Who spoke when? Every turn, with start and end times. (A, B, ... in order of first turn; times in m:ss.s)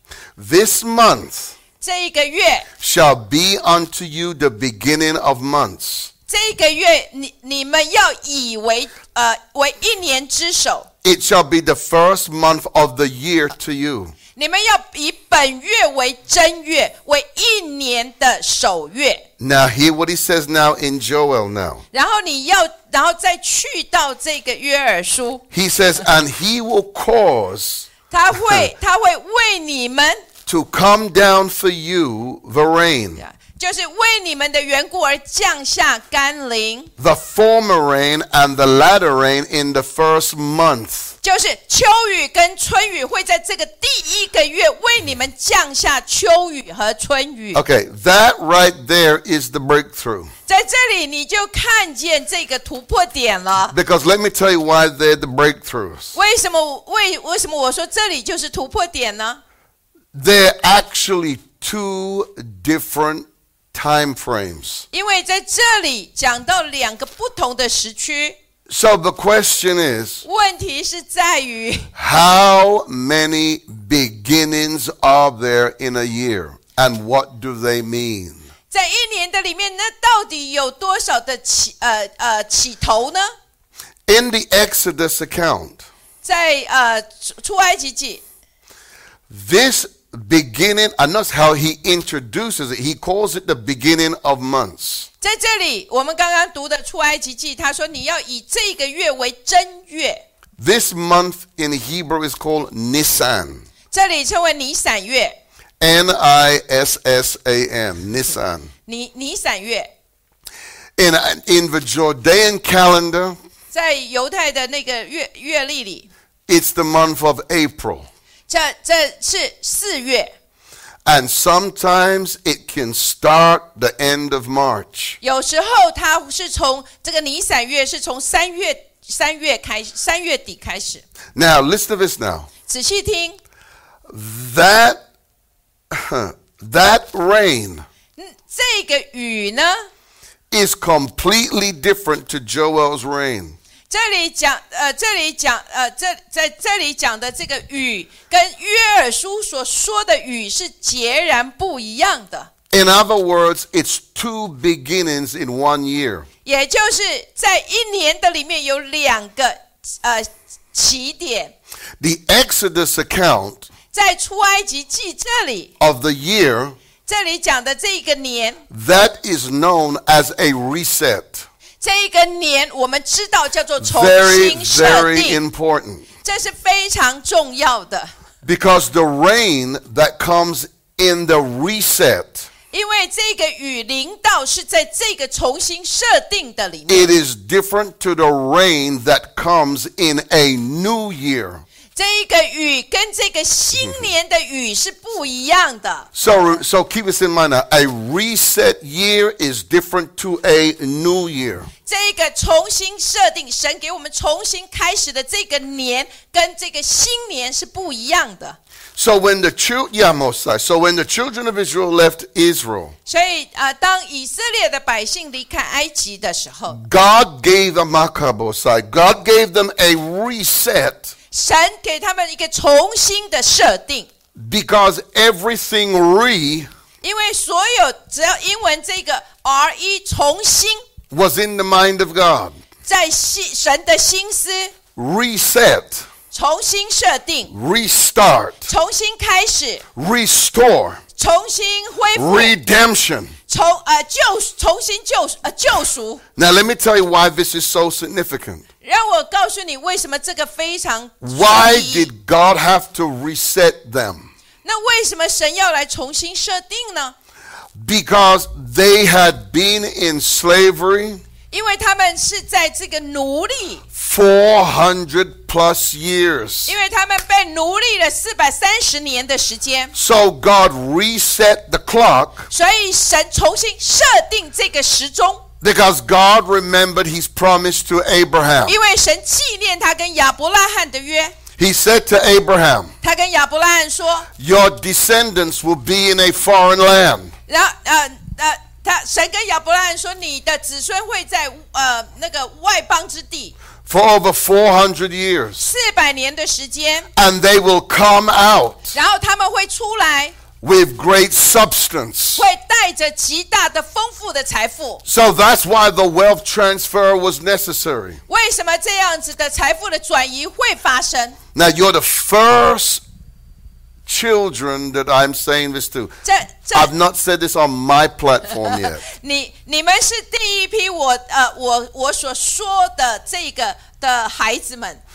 0:00.4-0:01.6 A
0:01.8-0:02.7 B
0:02.8-0:06.1 A
0:06.3-0:10.9 B
0:11.0-0:14.2 A
0:14.4-0:19.2 B
0:19.4-0:21.8 A
0:21.9-0:25.4 B
0:25.5-0:28.7 A
0:28.1-0:30.2 B
0:30.5-0:33.2 A
0:33.2-0:36.9 B
0:37.0-0:41.2 A
0:41.2-0:47.6 B
0:47.5-0:50.3 A
0:50.5-0:53.8 B
0:53.7-0:56.2 A
0:56.1-0:59.4 B
1:00.1-1:04.9 A
1:04.9-1:08.4 B
1:08.7-1:10.2 A
1:10.2-1:11.9 B
1:12.0-1:18.5 A
1:18.7-1:23.3 B
1:24.1-1:25.8 A
1:26.2-1:28.2 B
1:29.3-1:35.1 A
1:35.2-1:40.2 B
1:40.6-1:43.7 A
1:43.9-1:45.4 B
1:45.8-1:48.7 A
1:48.9-1:49.9 B
1:51.0-1:53.4 A
1:53.7-1:56.1 B
1:56.5-1:58.1 A
1:58.5-2:00.3 B
2:01.0-2:05.2 A
2:05.2-2:11.0 B
2:11.4-2:12.5 A
2:12.7-2:13.4 B
2:14.1-2:15.0 A
2:15.9-2:17.8 A
2:18.2-2:19.9 B
2:20.5-2:23.6 A
2:23.9-2:32.5 B
2:32.7-2:36.3 A
2:36.4-2:41.5 B
2:42.0-2:43.7 A
2:43.9-2:45.7 B
2:45.8-2:46.8 A
2:47.1-2:48.6 B
2:48.7-2:51.5 A
2:51.8-2:55.4 B
2:53.8-2:56.1 A
2:56.2-2:58.1 B
2:58.4-3:02.5 A
3:02.7-3:07.1 B
3:06.9-3:11.6 A
3:12.0-3:16.1 B
3:13.7-3:14.1 A
3:16.1-3:21.7 A
3:21.9-3:28.6 B
3:29.0-3:33.0 A
3:33.1-3:36.8 B
3:36.7-3:41.2 A
3:41.3-3:44.1 B
3:44.4-3:46.7 A
3:47.0-3:50.8 B
3:51.1-3:52.6 A
3:52.9-3:54.8 B
3:55.0-3:56.1 A
3:56.3-3:57.5 B
3:57.5-3:58.7 A
3:58.7-3:59.8 B
4:00.0-4:01.0 A
4:01.2-4:02.6 B
4:02.2-4:03.4 A
4:03.5-4:06.2 B
4:06.4-4:08.7 A
4:08.8-4:12.1 B
4:11.2-4:14.3 A
4:14.6-4:17.2 B
4:17.8-4:21.2 A
4:21.5-4:23.8 B
4:23.9-4:26.8 A
4:26.7-4:29.9 B
4:29.9-4:32.5 A
4:32.5-4:35.4 B
4:35.6-4:38.8 A
4:38.7-4:41.4 B
4:41.6-4:42.9 A
4:43.0-4:44.3 B
4:44.4-4:47.3 A
4:47.5-4:53.6 B
4:53.8-4:55.6 A
4:55.6-4:57.1 B
4:57.2-4:59.0 A
4:58.9-5:00.4 B
5:00.6-5:02.4 A
5:02.4-5:05.0 B
5:05.0-5:08.2 A
5:08.3-5:11.4 B
5:11.6-5:13.0 A
5:14.1-5:16.2 A
5:16.2-5:16.9 B
5:16.7-5:19.0 A
5:18.6-5:25.0 B